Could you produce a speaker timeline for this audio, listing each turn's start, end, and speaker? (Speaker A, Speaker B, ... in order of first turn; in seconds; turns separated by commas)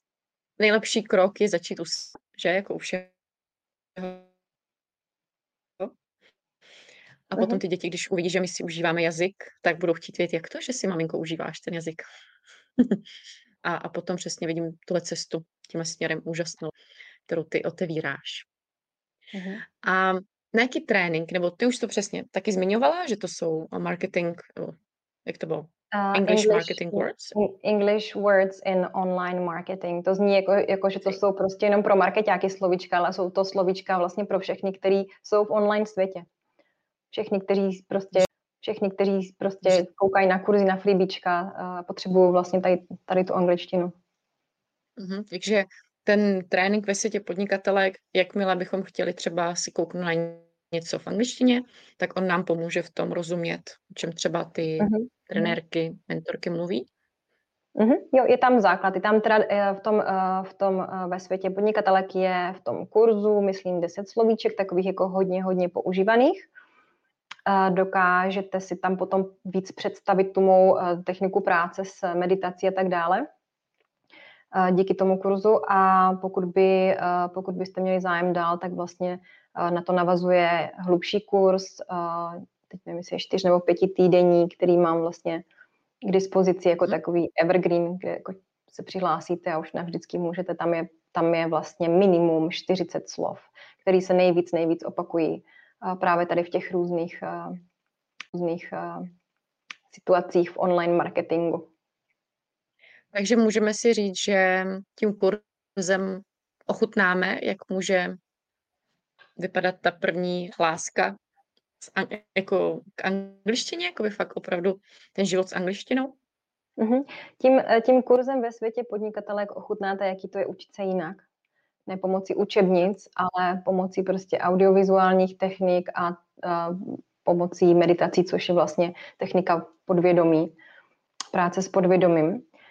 Speaker A: 0.6-3.1, Speaker A: 4.0-4.3, Speaker A: 7.3-12.0, Speaker A: 13.6-16.8, Speaker A: 17.3-18.5, Speaker B: 19.3-19.6, Speaker A: 19.8-24.8, Speaker A: 25.3-27.4, Speaker B: 25.9-36.3, Speaker B: 37.1-43.9, Speaker A: 45.0-56.9, Speaker B: 54.8-55.5, Speaker B: 57.8-66.5, Speaker B: 67.5-73.3, Speaker B: 74.5-85.4, Speaker B: 86.0-97.6, Speaker B: 98.3-99.1, Speaker B: 99.9-101.7, Speaker A: 103.1-108.2, Speaker A: 109.4-111.2, Speaker A: 111.8-116.2, Speaker B: 116.8-121.2, Speaker B: 121.9-130.6, Speaker B: 131.3-132.5